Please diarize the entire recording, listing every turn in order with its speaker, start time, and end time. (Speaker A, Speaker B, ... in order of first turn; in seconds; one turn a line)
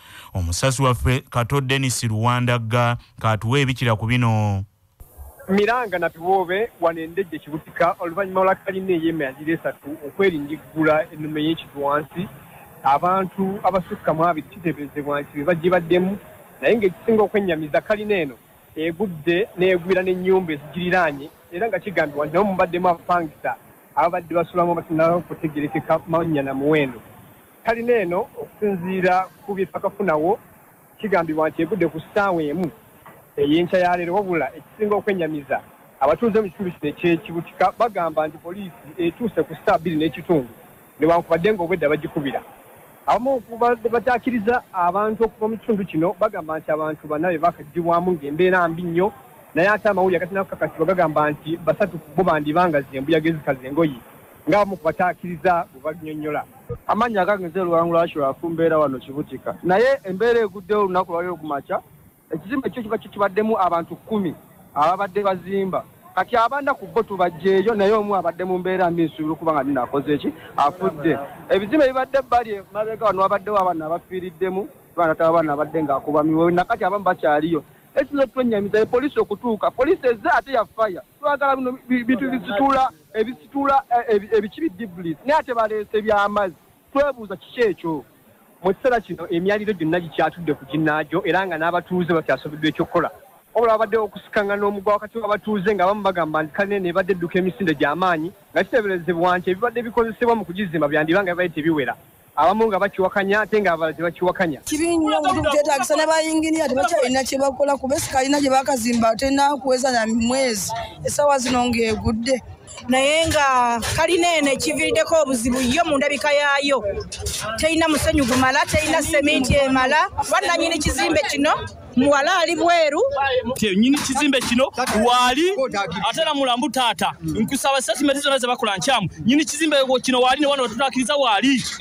Speaker A: 0.3-4.6
Speaker B: 5.5-12.3
Speaker B: 12.8-27.0
Speaker B: 27.6-30.4
Speaker B: 31.0-32.7
Speaker B: 33.4-42.4
Speaker B: 43.1-56.5
Speaker C: 56.9-61.8
Speaker C: 62.3-88.0
Speaker B: 88.6-104.6
Speaker D: 104.7-112.4
Speaker E: 112.9-116.8
Speaker E: 117.6-123.0
Speaker F: 123.6-131.7
Speaker C: 125.6-126.0